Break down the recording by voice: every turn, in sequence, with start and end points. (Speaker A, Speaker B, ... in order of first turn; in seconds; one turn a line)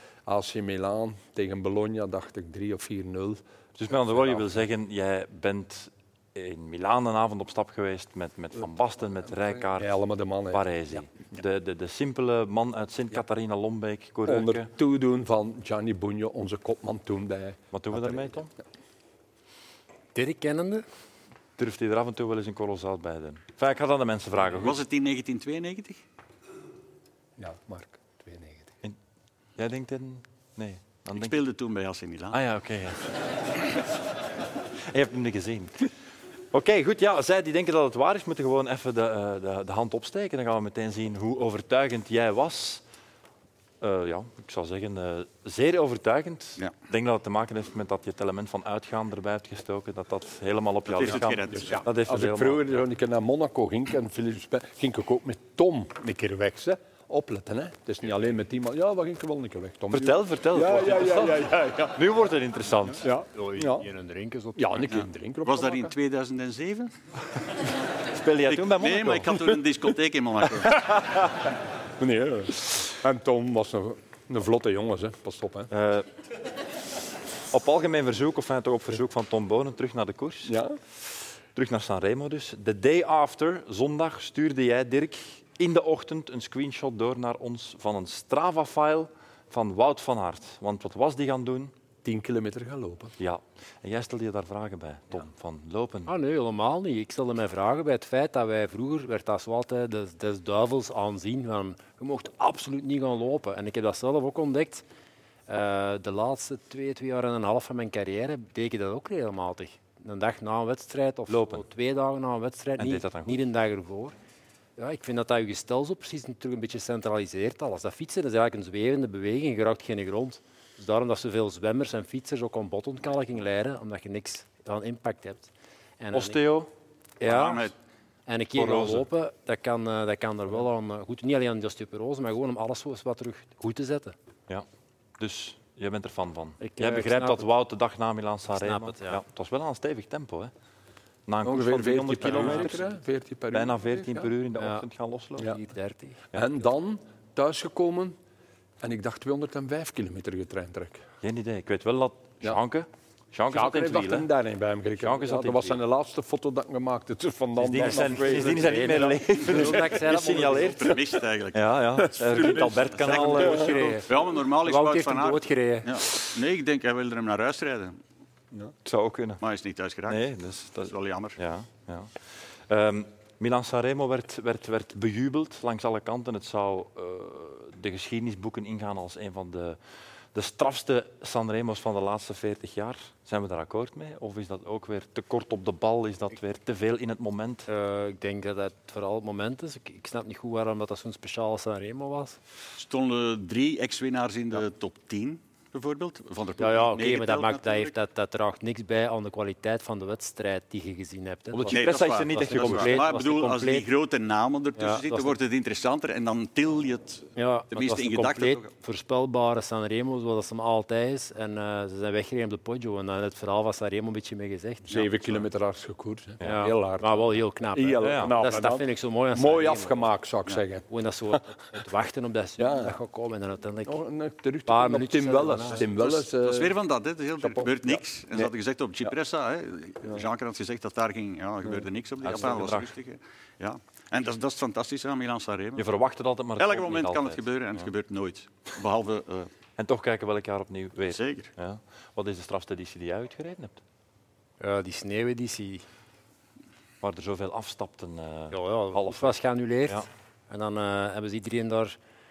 Speaker A: 0.3-3.4
Speaker B: 3.8-9.9
Speaker A: 4.1-4.5
Speaker A: 9.7-11.0
Speaker B: 10.5-14.7
Speaker A: 14.2-18.3
Speaker B: 17.7-18.5
Speaker C: 20.1-20.8
Speaker B: 21.6-24.8
Speaker D: 24.6-26.0
Speaker A: 27.4-28.7
Speaker B: 29.6-31.4
Speaker D: 31.1-32.4
Speaker B: 32.3-33.7
Speaker B: 34.9-35.9
Speaker B: 36.5-42.8
Speaker B: 43.8-52.7
Speaker D: 50.9-51.8
Speaker A: 51.5-62.1
Speaker B: 59.9-63.1
Speaker A: 63.0-63.9
Speaker C: 63.3-64.8
Speaker A: 64.5-65.9
Speaker D: 65.4-66.9
Speaker B: 68.1-69.5
Speaker D: 68.5-70.8
Speaker A: 70.7-71.3
Speaker A: 72.0-75.7
Speaker B: 75.7-76.1
Speaker B: 77.5-80.6
Speaker A: 80.5-80.8
Speaker B: 81.5-91.7
Speaker A: 92.0-93.1
Speaker B: 93.2-96.1
Speaker C: 96.1-104.8
Speaker C: 105.5-114.1
Speaker B: 111.3-111.6
Speaker B: 112.8-113.4
Speaker C: 114.8-126.4
Speaker B: 126.1-126.7
Speaker C: 127.2-127.7
Speaker D: 127.2-127.7
Speaker C: 128.3-134.1
Speaker B: 128.6-129.0
Speaker B: 135.2-140.5
Speaker C: 136.6-137.5
Speaker C: 138.6-139.2
Speaker B: 141.3-142.8
Speaker A: 141.4-144.3
Speaker B: 143.5-145.5
Speaker C: 144.6-144.8
Speaker C: 145.4-146.2
Speaker A: 146.3-148.2
Speaker A: 148.8-151.0
Speaker B: 151.2-154.3
Speaker A: 153.5-159.7
Speaker B: 155.0-155.8
Speaker B: 157.6-161.0
Speaker C: 157.8-160.8
Speaker D: 160.4-161.6
Speaker B: 161.5-164.0
Speaker A: 162.1-163.8
Speaker C: 163.0-165.9
Speaker D: 163.1-168.0
Speaker B: 168.8-169.4
Speaker D: 169.4-170.2
Speaker B: 170.1-179.8
Speaker D: 170.8-171.4
Speaker B: 180.3-187.7
Speaker C: 187.7-192.4
Speaker D: 192.8-197.9
Speaker C: 196.6-203.9
Speaker B: 201.5-203.1
Speaker D: 201.7-208.7
Speaker C: 204.8-205.4
Speaker C: 207.3-214.9
Speaker A: 214.9-220.8
Speaker C: 216.4-220.1
Speaker B: 218.0-218.3
Speaker C: 220.9-224.0
Speaker A: 222.6-223.0
Speaker A: 223.8-226.8
Speaker C: 224.7-225.8
Speaker D: 225.9-235.8
Speaker A: 227.4-228.5
Speaker B: 232.2-232.9
Speaker B: 235.8-237.9
Speaker D: 236.6-239.5
Speaker B: 239.8-243.8
Speaker D: 241.1-241.5
Speaker C: 244.6-245.8
Speaker B: 247.0-250.1
Speaker C: 248.5-252.0